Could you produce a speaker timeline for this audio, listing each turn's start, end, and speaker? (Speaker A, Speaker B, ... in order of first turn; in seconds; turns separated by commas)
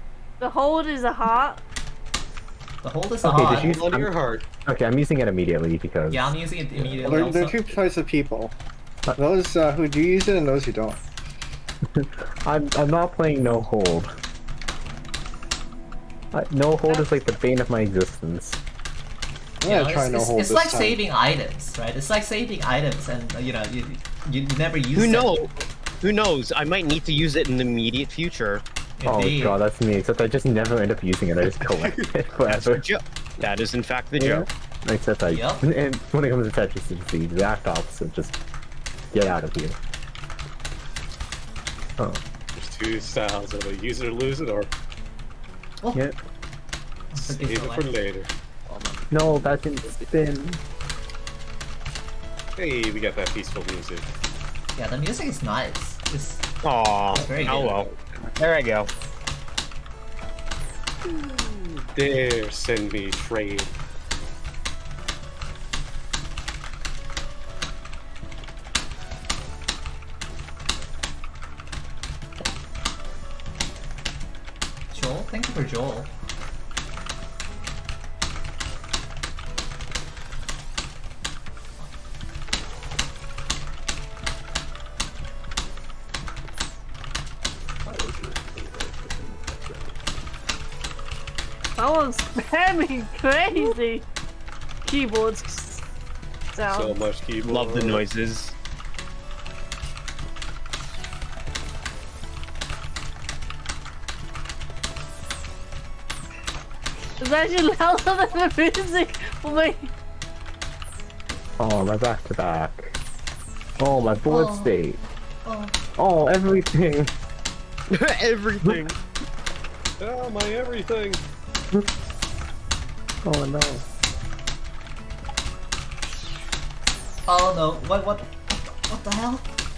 Speaker A: 0.4-1.6, Speaker B: 2.8-3.8, Speaker C: 3.2-4.1, Speaker D: 3.6-4.4, Speaker C: 4.7-6.3, Speaker B: 6.1-7.7, Speaker E: 7.0-8.6, Speaker E: 9.2-11.0, Speaker C: 12.0-14.1, Speaker C: 16.3-18.6, Speaker B: 19.6-25.4, Speaker E: 19.6-21.0, Speaker F: 24.9-28.6, Speaker B: 29.0-29.6, Speaker C: 29.1-32.9, Speaker F: 32.5-34.5, Speaker C: 34.2-38.4, Speaker B: 35.3-35.6, Speaker C: 39.1-39.8, Speaker D: 42.6-44.7, Speaker B: 47.1-48.0, Speaker D: 47.2-48.3, Speaker C: 49.1-50.6, Speaker D: 52.6-54.1, Speaker B: 54.8-56.5, Speaker F: 56.6-58.9, Speaker B: 57.1-57.6, Speaker D: 57.5-57.9, Speaker D: 61.3-63.7, Speaker B: 74.9-76.1, Speaker D: 87.9-88.4, Speaker A: 91.8-94.1, Speaker A: 94.8-95.8, Speaker A: 96.5-97.0, Speaker D: 96.6-98.0, Speaker F: 97.4-98.5, Speaker A: 107.2-109.9, Speaker C: 111.6-113.0, Speaker C: 113.8-115.0, Speaker B: 114.3-114.7, Speaker B: 115.5-115.8, Speaker C: 116.0-117.1, Speaker F: 117.9-119.0, Speaker D: 120.0-121.2, Speaker C: 123.2-123.8, Speaker B: 127.3-129.5